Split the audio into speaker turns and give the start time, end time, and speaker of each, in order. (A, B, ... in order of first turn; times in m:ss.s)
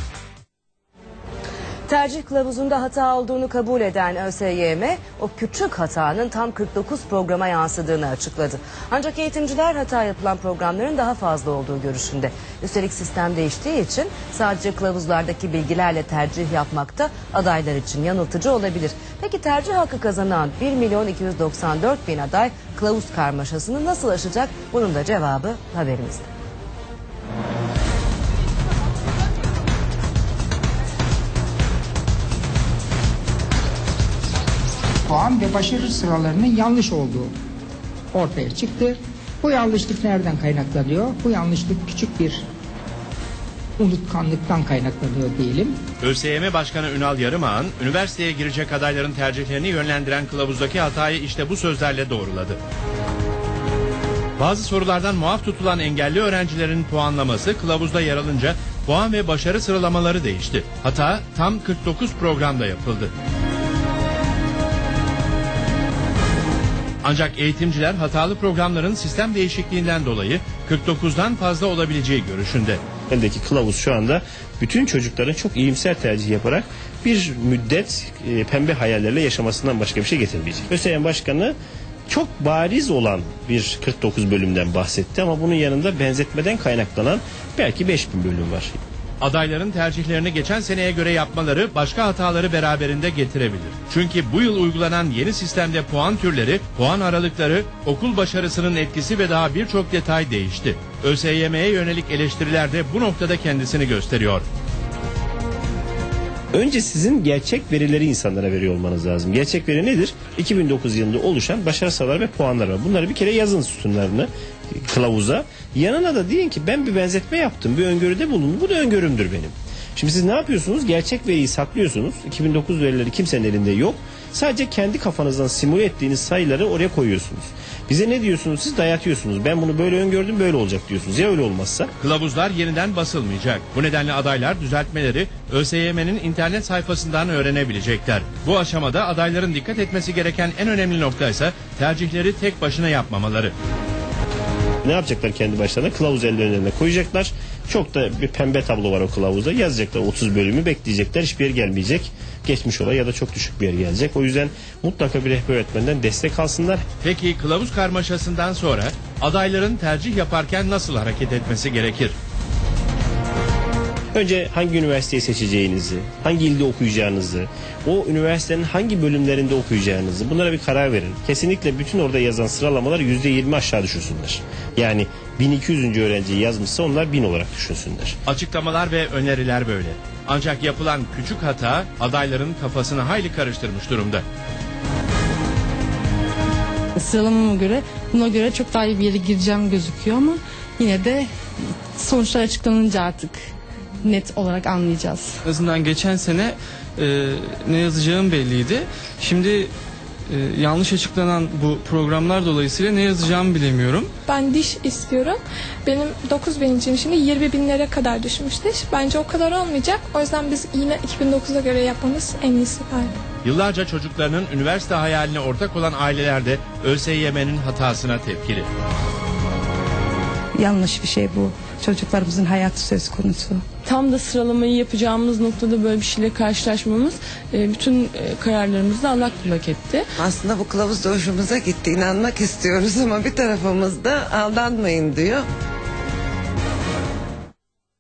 0:01.9-0:26.3 A
0:35.1-0:37.3 B
0:38.1-0:42.4 B
0:43.8-0:45.7 B
0:46.0-0:52.6 C
0:54.4-1:03.1 C
1:07.0-1:12.8 C
1:13.1-1:21.6 D
1:22.1-1:28.8 D
1:29.2-1:44.5 C
1:46.5-2:11.9 D
2:12.0-2:23.5 C
2:24.8-2:36.8 D
2:37.0-2:42.2 C
2:44.1-2:58.2 D
2:58.3-3:04.2 C
3:07.0-3:11.3 E
3:12.0-3:13.5 E
3:14.0-3:15.4 E
3:15.4-3:19.7 F
3:20.3-3:24.1 F
3:24.3-3:33.1 G
3:33.4-3:38.7 C
3:40.6-3:43.6 H
3:43.9-3:50.1 I
3:50.2-3:55.5 J